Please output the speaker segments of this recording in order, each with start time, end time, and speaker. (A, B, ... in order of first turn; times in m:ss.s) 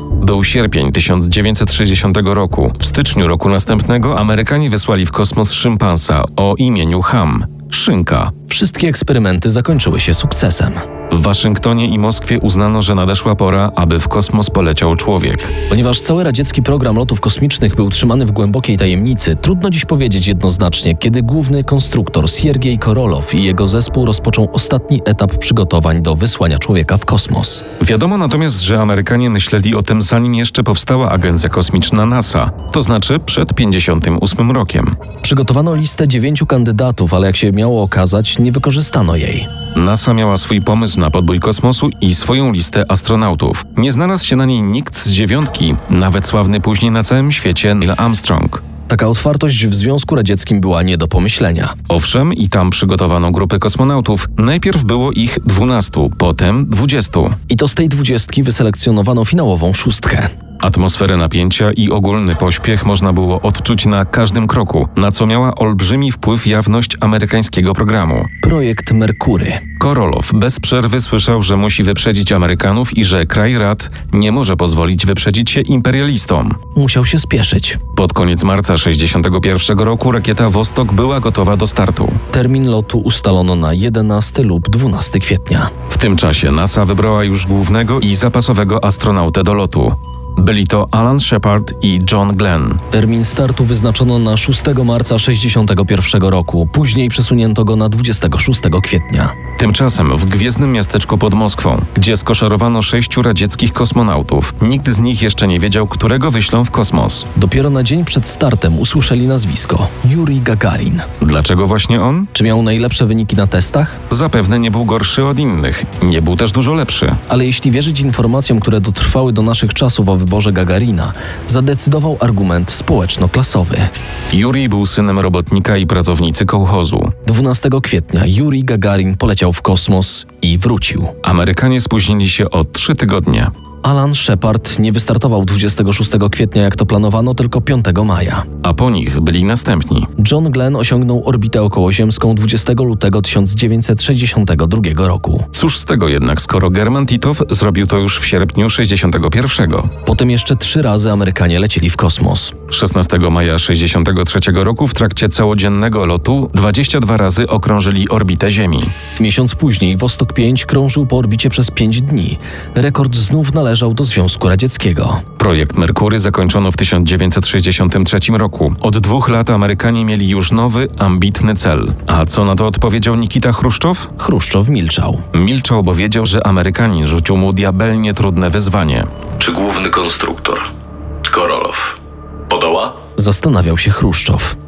0:00.2-0:08.3 A
0:08.5-0:10.8 B
0:11.1-0:15.5 A
0:15.7-0:27.6 B
0:27.8-0:35.0 A
0:35.2-0:39.5 B
0:39.8-0:48.6 A
0:48.9-0:51.7 B
0:51.9-0:57.4 A
0:57.5-1:00.3 B
1:00.6-1:08.3 A
1:08.4-1:09.6 B
1:09.8-1:16.6 A
1:16.8-1:17.8 B
1:18.0-1:22.2 A
1:22.3-1:25.7 B
1:25.9-1:32.8 A
1:32.9-1:39.3 B
1:39.6-1:47.3 A
1:47.4-1:51.1 B
1:51.2-1:52.3 A
1:52.3-1:54.0 B
1:54.1-1:57.2 A
1:57.3-2:03.9 B
2:04.3-2:07.1 A
2:07.2-2:11.1 B
2:11.2-2:13.5 A
2:13.8-2:18.5 B
2:18.6-2:20.1 A
2:20.2-2:25.5 B
2:25.5-2:29.9 A
2:30.0-2:32.6 B
2:32.7-2:38.9 A
2:39.2-2:45.2 B
2:45.4-2:54.1 A
2:54.2-2:55.2 B
2:55.3-2:59.1 A
2:59.4-3:00.6 C
3:01.3-3:01.9 C
3:02.5-3:02.9 C
3:03.2-3:04.6 B